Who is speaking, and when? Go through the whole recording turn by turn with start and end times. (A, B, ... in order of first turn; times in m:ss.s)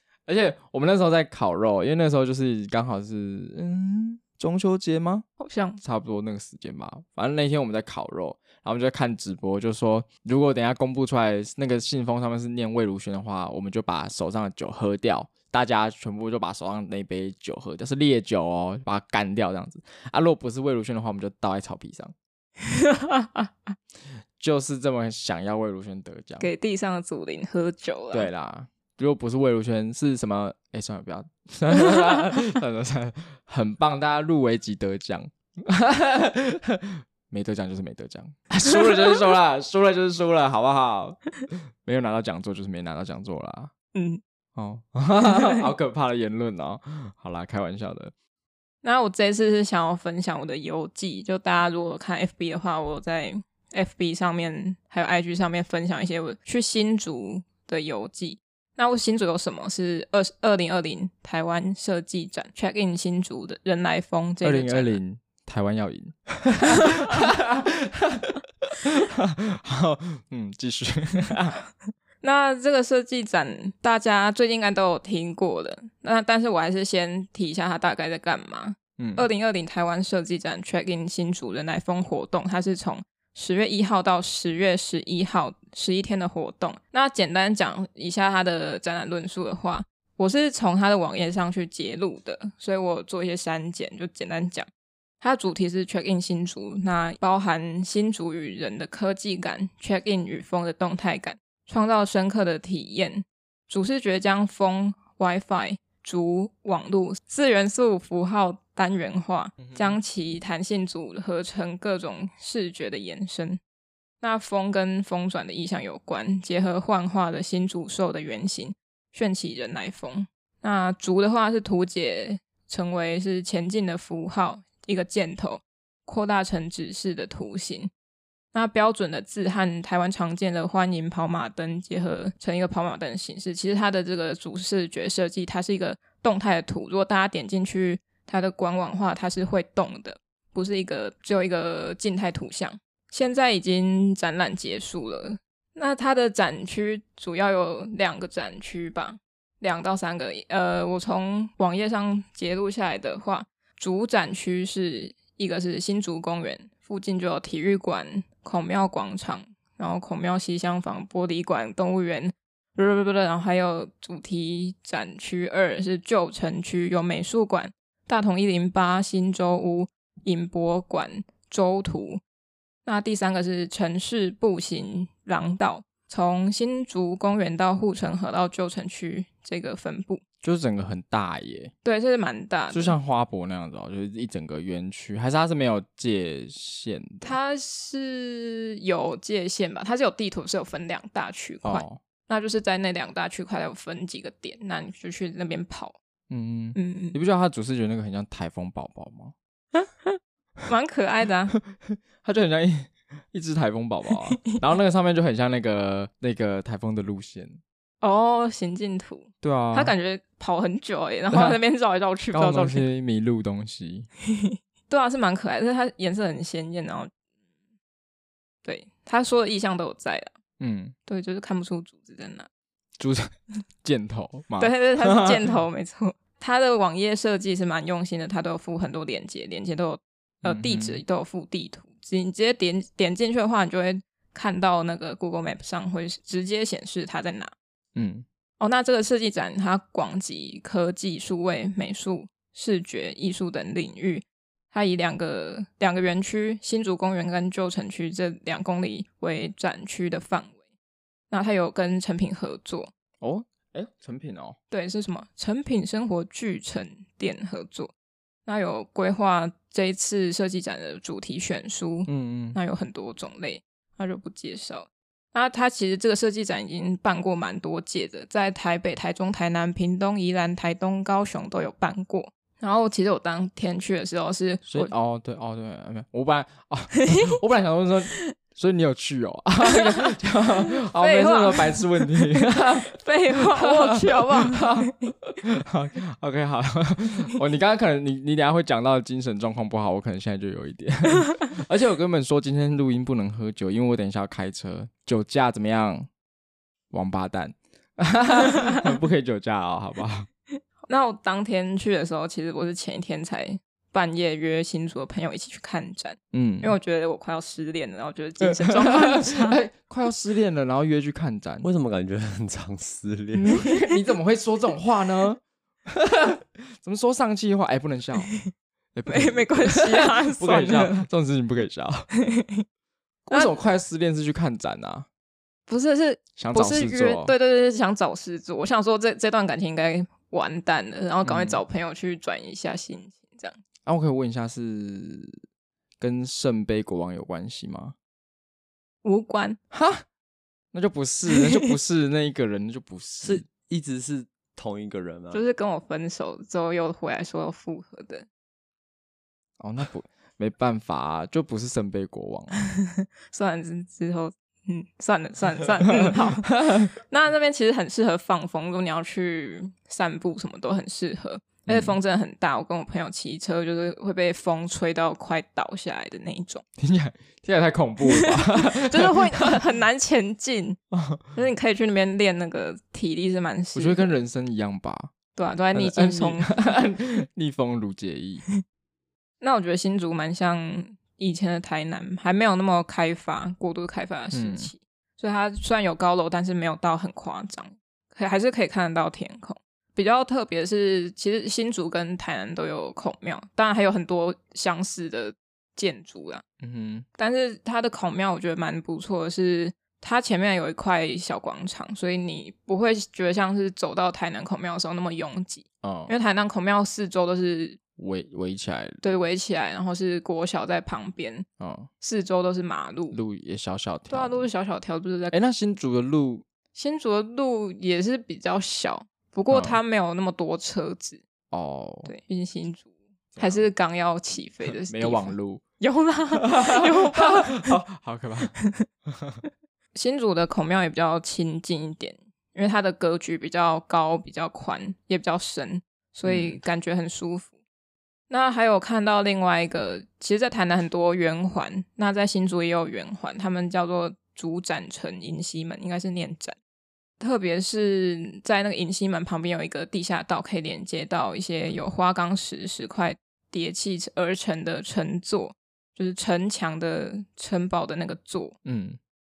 0:00.3-0:05.3 A
0:05.4-0:05.8 B
0:05.8-0:22.2 A
0:22.6-0:23.8 B
0:24.4-0:26.5 A
0:26.4-0:28.3 B
0:28.1-0:43.7 A
0:44.0-0:44.2 B
0:44.6-0:48.1 A
0:48.8-1:05.0 B
1:04.4-1:11.6 A
1:06.7-1:07.0 B
1:12.2-1:34.7 B
1:19.0-1:19.3 A
1:35.2-1:53.6 B
1:49.6-1:50.0 A
1:54.2-2:07.9 B
2:08.5-2:52.2 B
2:52.8-3:00.2 B
3:00.4-3:01.7 A
3:01.8-3:03.0 B
3:02.7-3:07.4 A
3:07.2-3:16.0 B
3:11.6-3:12.0 A
3:16.3-3:19.4 A
3:16.8-3:17.2 B
3:19.8-3:21.6 B
3:21.6-3:27.6 A
3:28.0-3:32.9 B
3:29.4-3:29.9 A
3:31.3-3:31.6 A
3:32.3-3:34.1 A
3:34.4-3:37.1 B
3:38.6-3:40.3 B
3:40.6-3:41.0 A
3:41.1-3:42.5 B
3:43.0-3:43.3 A
3:43.8-3:45.4 A
3:44.6-3:57.5 B
3:50.4-3:51.0 A
3:58.0-3:58.3 A
3:58.6-4:10.6 B
4:11.3-4:12.9 B
4:13.2-4:14.6 A
4:14.7-4:17.9 B
4:18.5-4:34.9 B
4:22.1-4:22.6 A
4:34.6-4:56.1 A
4:37.0-4:37.3 B
4:41.0-4:45.1 B
4:56.9-5:00.3 A
5:00.9-5:09.6 B
5:06.3-5:06.8 A
5:08.4-5:11.7 A
5:11.6-5:13.7 C
5:13.3-5:18.3 A
5:19.0-5:22.1 A
5:19.1-5:21.0 B
5:22.2-5:22.6 B
5:23.3-5:25.1 A
5:25.7-5:33.6 B
5:26.4-5:27.3 A
5:31.2-5:31.6 A
5:33.8-5:35.4 A
5:36.0-5:38.0 A
5:39.0-5:39.6 B
5:39.7-5:40.0 A
5:40.7-5:43.5 A
5:43.2-5:45.4 C
5:45.3-5:48.3 B
5:49.6-5:52.6 A
5:52.8-6:06.6 B
6:01.7-6:02.0 A
6:06.8-6:09.5 A
6:08.0-6:10.8 B
6:10.9-6:11.4 A
6:11.3-6:14.1 B
6:13.7-6:15.1 A
6:15.4-6:16.5 B
6:15.7-6:18.4 A
6:19.4-6:36.4 B
6:24.3-6:24.7 A
6:36.6-6:37.1 A
6:37.2-6:47.8 B
6:45.8-6:46.1 A
6:48.0-6:49.0 A
6:49.0-6:51.5 B
6:51.6-6:51.9 A
6:52.0-6:53.2 B
6:53.1-6:54.5 A
6:54.1-6:55.4 B
6:55.3-6:56.4 A
6:56.7-7:01.2 B
6:59.5-6:59.8 A
7:01.5-7:02.1 A
7:02.1-7:07.8 B
7:03.4-7:03.7 A
7:04.7-7:05.6 A
7:06.4-7:08.5 A
7:08.6-7:08.8 B
7:09.1-7:09.4 A
7:10.0-7:17.5 B
7:16.2-7:16.6 A
7:18.3-7:26.6 B
7:27.2-7:38.6 B
7:38.6-7:39.0 A